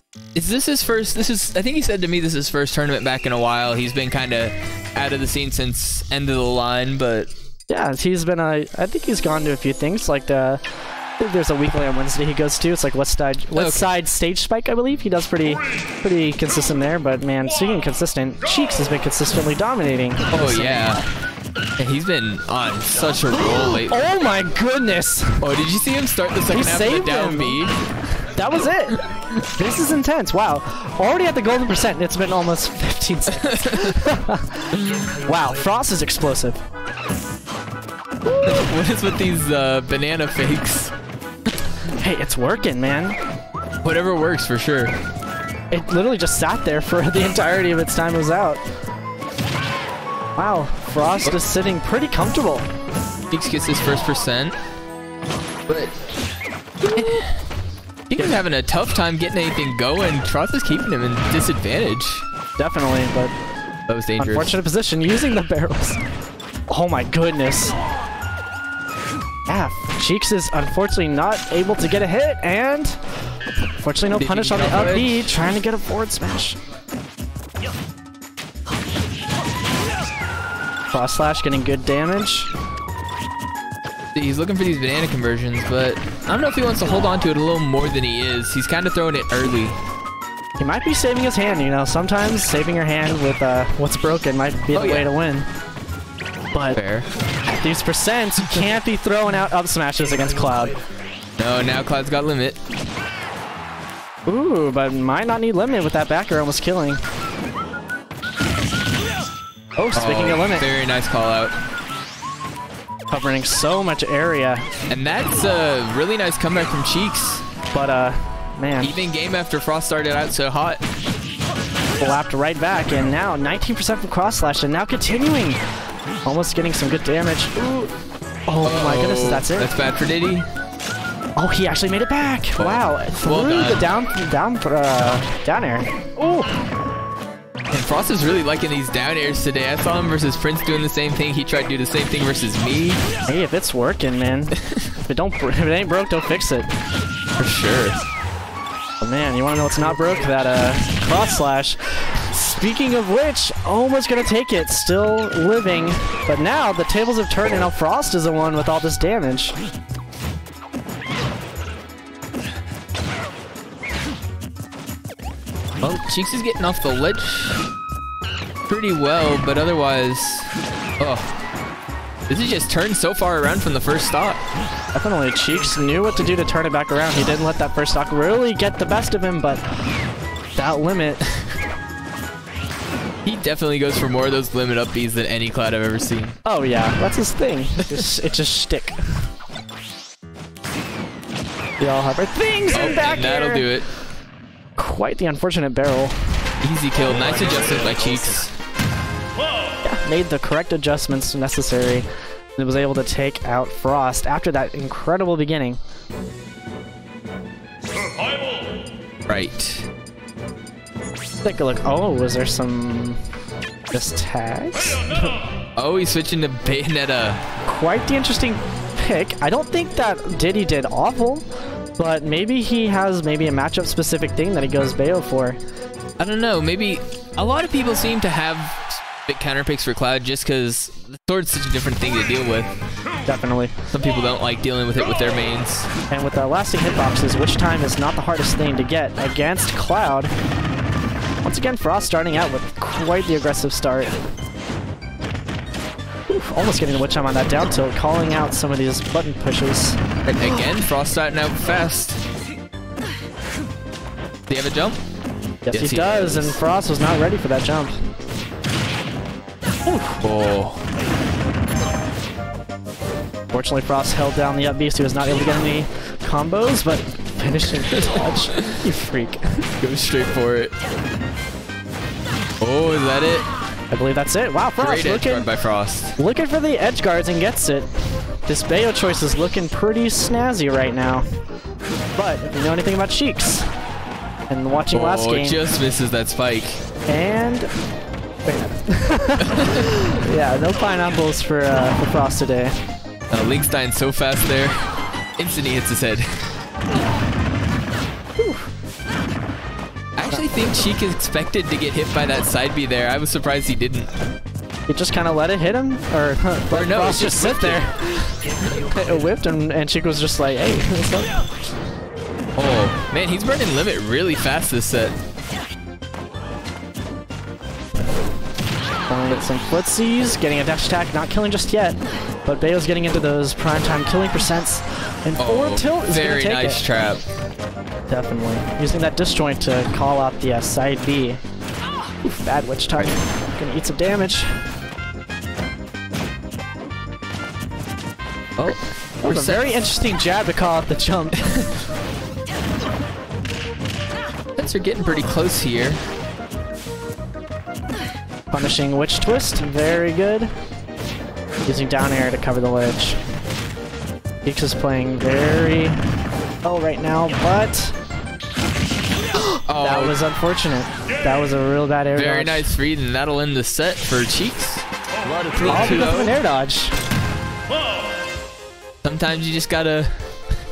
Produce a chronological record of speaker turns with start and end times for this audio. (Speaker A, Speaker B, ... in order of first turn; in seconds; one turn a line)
Speaker A: 0.3-7.3
Speaker B: 7.7-10.6
Speaker B: 11.2-21.0
Speaker A: 13.5-13.9
Speaker A: 20.3-21.0
Speaker A: 21.8-24.0
Speaker B: 23.3-25.4
Speaker A: 25.4-27.8
Speaker B: 26.5-27.6
Speaker B: 28.2-36.6
Speaker A: 33.4-34.0
Speaker A: 34.8-35.0
Speaker B: 38.3-38.6
Speaker A: 38.4-40.9
Speaker B: 41.9-43.2
Speaker A: 43.8-44.9
Speaker B: 45.7-48.6
Speaker B: 50.4-52.6
Speaker A: 53.3-54.5
Speaker A: 55.7-55.9
Speaker A: 56.9-57.3
Speaker B: 57.0-57.2
Speaker A: 58.1-62.2
Speaker B: 62.6-63.3
Speaker A: 63.9-64.5
Speaker B: 64.2-66.0
Speaker B: 66.7-67.8
Speaker B: 69.5-73.0
Speaker B: 73.8-76.5
Speaker A: 74.2-75.3
Speaker B: 80.9-82.5
Speaker A: 84.1-89.8
Speaker B: 90.6-95.5
Speaker A: 94.7-95.1
Speaker B: 96.5-96.8
Speaker A: 96.7-97.1
Speaker B: 97.5-100.8
Speaker A: 101.4-102.6
Speaker B: 104.2-107.0
Speaker B: 109.8-110.7
Speaker A: 109.9-111.5
Speaker B: 113.1-114.7
Speaker A: 114.9-117.4
Speaker B: 117.7-118.9
Speaker A: 118.8-120.8
Speaker B: 122.0-125.6
Speaker B: 126.2-127.9
Speaker B: 128.5-129.7
Speaker A: 128.6-130.4
Speaker B: 131.4-136.5
Speaker A: 132.6-133.8
Speaker A: 137.7-143.0
Speaker B: 143.3-144.5
Speaker B: 145.1-146.7
Speaker A: 147.4-148.0
Speaker B: 149.0-159.6
Speaker A: 165.8-167.6
Speaker A: 168.7-171.3
Speaker A: 172.3-174.4
Speaker B: 174.9-179.6
Speaker B: 180.6-181.4
Speaker A: 183.2-186.3
Speaker B: 186.4-189.2
Speaker B: 191.8-193.7
Speaker A: 192.7-193.9
Speaker B: 194.8-196.2
Speaker A: 196.6-198.5
Speaker B: 199.8-202.0
Speaker B: 202.6-205.8
Speaker A: 209.3-209.9
Speaker B: 211.4-213.2
Speaker B: 213.9-215.4
Speaker A: 215.8-217.4
Speaker B: 217.6-221.4
Speaker B: 222.0-225.6
Speaker A: 226.2-232.7
Speaker B: 233.2-233.7
Speaker A: 233.9-235.9
Speaker B: 236.1-240.3
Speaker B: 241.4-244.2
Speaker B: 246.3-250.0
Speaker A: 250.2-252.2
Speaker A: 254.5-255.0
Speaker B: 255.7-257.9
Speaker A: 255.7-256.6
Speaker B: 259.8-260.2
Speaker A: 260.2-260.8
Speaker B: 263.5-269.6
Speaker A: 269.8-270.7
Speaker A: 272.6-273.5
Speaker B: 273.9-275.5
Speaker A: 274.8-276.2
Speaker B: 276.2-281.2
Speaker B: 282.1-283.7
Speaker B: 284.5-285.6
Speaker A: 284.9-286.8
Speaker B: 287.1-287.7
Speaker B: 288.4-292.7
Speaker A: 289.4-290.0
Speaker A: 293.3-296.5
Speaker B: 298.4-298.7
Speaker A: 300.1-304.1
Speaker B: 304.9-311.4
Speaker A: 306.7-307.9
Speaker A: 312.6-315.1
Speaker B: 319.1-326.8
Speaker A: 325.4-327.2
Speaker B: 328.1-331.4
Speaker B: 332.2-334.6
Speaker A: 338.6-339.8
Speaker B: 339.2-341.5
Speaker A: 344.6-346.0
Speaker B: 348.5-350.5
Speaker B: 351.6-353.2
Speaker B: 354.4-356.0
Speaker B: 356.6-357.9
Speaker B: 359.4-362.8
Speaker A: 359.6-360.2
Speaker A: 362.1-364.8
Speaker A: 365.5-366.3
Speaker B: 365.6-366.9
Speaker A: 369.0-370.3